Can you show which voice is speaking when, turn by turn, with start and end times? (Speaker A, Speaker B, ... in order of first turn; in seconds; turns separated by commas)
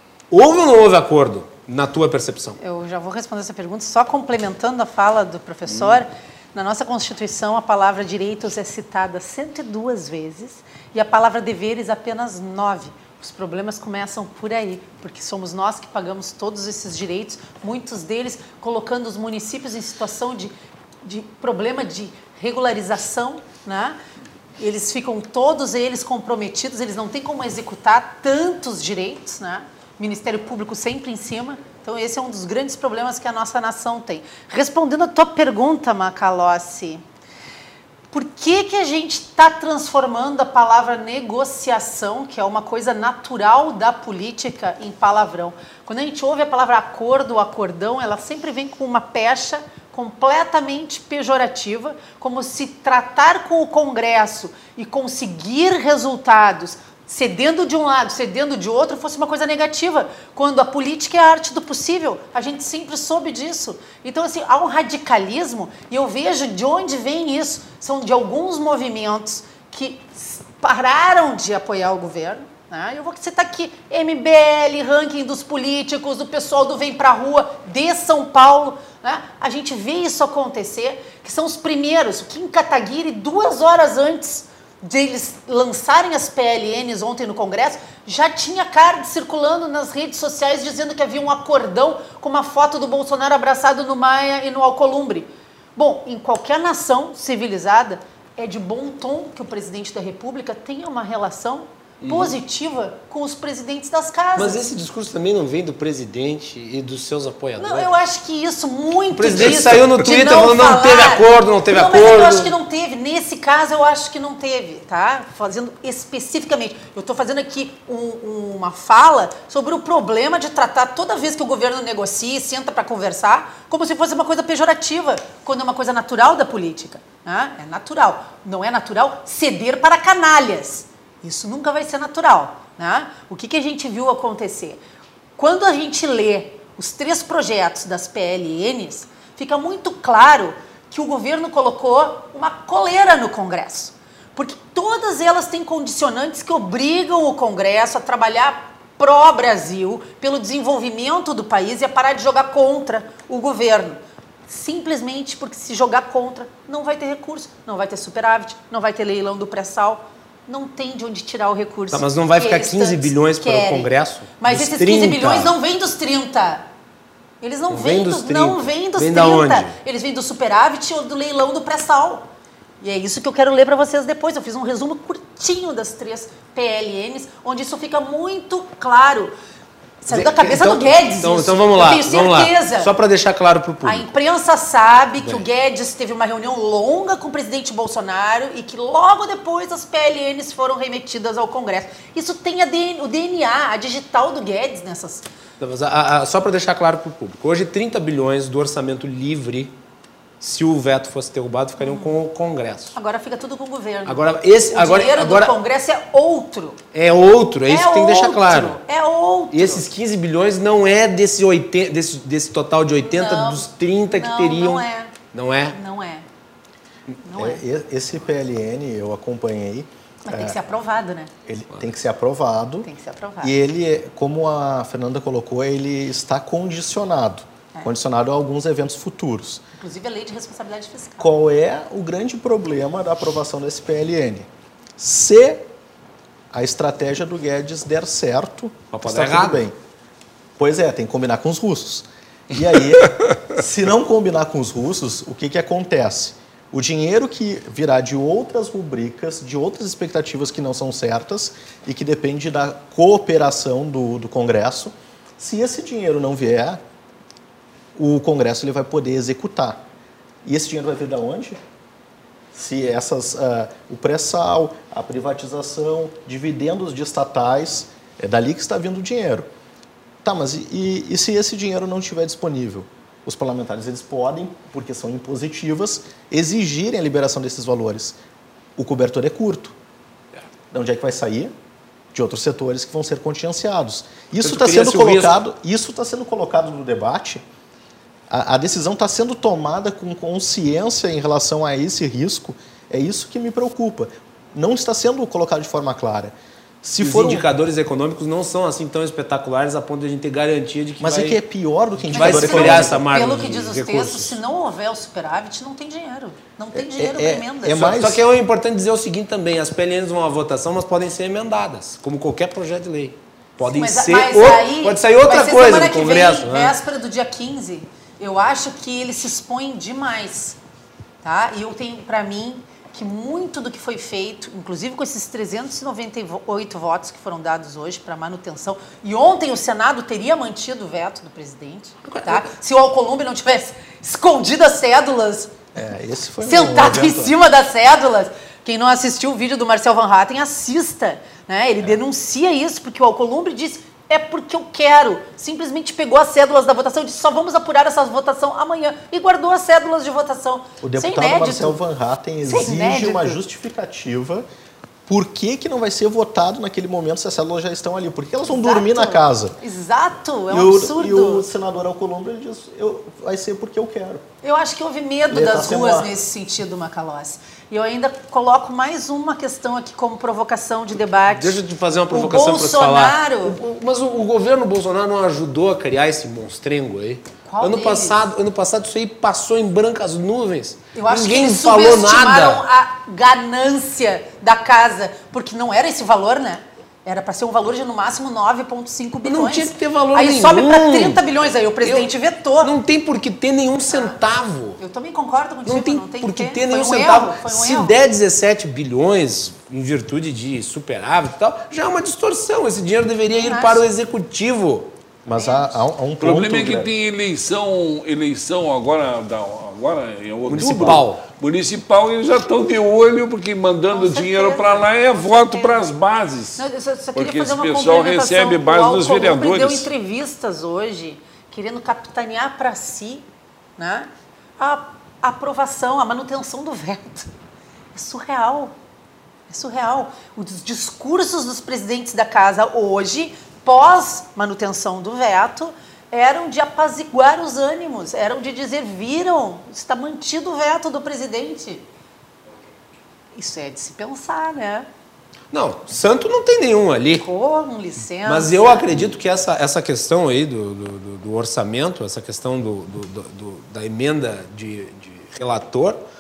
Speaker A: 0.3-2.6, Speaker B: 2.6-20.5, Speaker B: 21.0-24.0, Speaker B: 24.6-37.0, Speaker B: 38.1-104.6, Speaker C: 102.0-102.3, Speaker A: 104.4-107.9, Speaker B: 107.6-134.8, Speaker A: 109.1-112.5, Speaker B: 135.4-166.7, Speaker A: 161.9-165.5, Speaker B: 167.4-172.3, Speaker A: 167.7-169.7, Speaker B: 172.8-179.3, Speaker B: 180.0-182.9, Speaker A: 180.1-184.1, Speaker B: 183.8-195.2, Speaker A: 185.2-185.4, Speaker A: 195.6-199.8, Speaker A: 200.4-203.0, Speaker B: 201.8-202.1, Speaker B: 202.9-206.8, Speaker A: 204.1-205.6, Speaker A: 206.9-208.8, Speaker B: 207.7-209.9, Speaker A: 209.5-215.8, Speaker B: 213.0-215.1, Speaker B: 215.7-216.3, Speaker B: 217.2-217.6, Speaker D: 217.4-220.6, Speaker B: 220.3-221.3, Speaker D: 221.4-222.9, Speaker B: 222.8-223.5, Speaker D: 223.4-229.6, Speaker B: 229.8-231.3, Speaker D: 231.2-235.7, Speaker D: 236.5-239.8, Speaker A: 238.9-239.7, Speaker D: 240.6-256.8, Speaker D: 257.9-259.8, Speaker D: 260.4-261.6, Speaker D: 262.5-269.5, Speaker D: 270.2-278.2, Speaker D: 278.8-279.8, Speaker D: 280.7-281.5, Speaker D: 282.1-287.4, Speaker A: 284.4-285.4, Speaker D: 288.3-297.5, Speaker A: 297.0-301.4, Speaker D: 301.0-303.0, Speaker A: 302.0-304.4, Speaker B: 302.1-307.9, Speaker D: 306.7-308.2, Speaker A: 307.7-316.8, Speaker B: 313.6-320.6, Speaker B: 321.2-335.5, Speaker A: 332.0-332.5, Speaker D: 335.8-337.4, Speaker B: 336.4-351.8, Speaker D: 350.8-354.5, Speaker B: 352.5-353.4, Speaker D: 355.1-359.6, Speaker B: 358.5-361.4, Speaker D: 360.5-364.2, Speaker B: 364.4-371.6, Speaker D: 365.3-366.1, Speaker A: 371.3-382.6, Speaker B: 372.1-373.6, Speaker B: 377.5-378.2, Speaker B: 380.9-392.7, Speaker A: 389.2-391.2, Speaker A: 391.8-394.8, Speaker B: 393.9-394.2, Speaker B: 394.8-397.9, Speaker A: 395.6-404.9, Speaker B: 403.4-403.9, Speaker D: 405.2-406.9, Speaker B: 405.3-405.8, Speaker C: 406.2-419.9, Speaker A: 410.5-411.2, Speaker B: 413.9-415.9, Speaker B: 416.6-423.3, Speaker B: 423.8-427.3, Speaker B: 427.9-428.7, Speaker B: 429.5-441.9, Speaker B: 443.4-444.9, Speaker A: 445.5-447.3, Speaker B: 447.2-449.1, Speaker A: 448.2-456.0